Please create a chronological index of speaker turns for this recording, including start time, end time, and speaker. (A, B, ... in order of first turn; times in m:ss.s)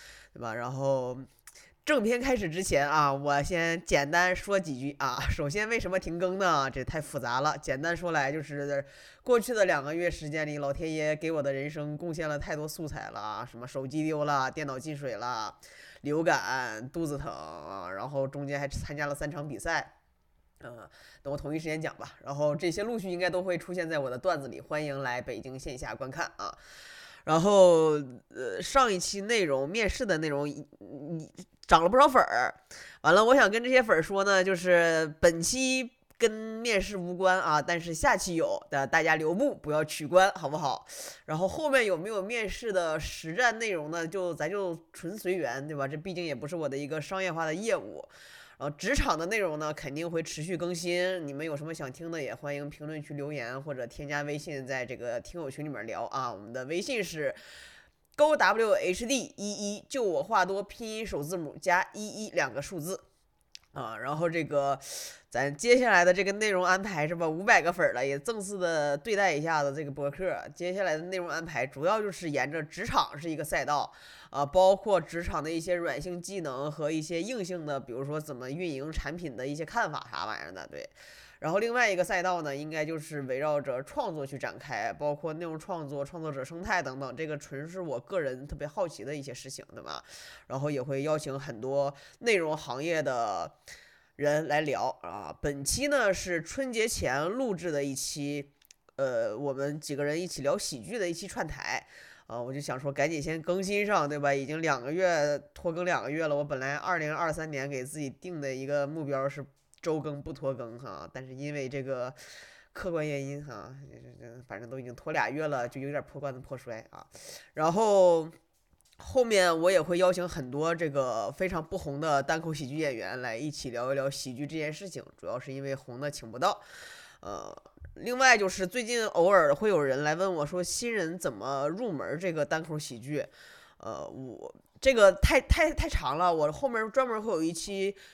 0:00.3-0:01.3 A
0:01.8-0:19.9 A
0:20.6-0:26.6 A
0:27.3-0:57.4 A
0:58.2-1:03.0 A
1:03.7-1:33.5 A
1:34.2-1:52.2 A
1:52.7-1:58.3 A
1:59.0-2:06.6 A
2:07.2-2:18.0 A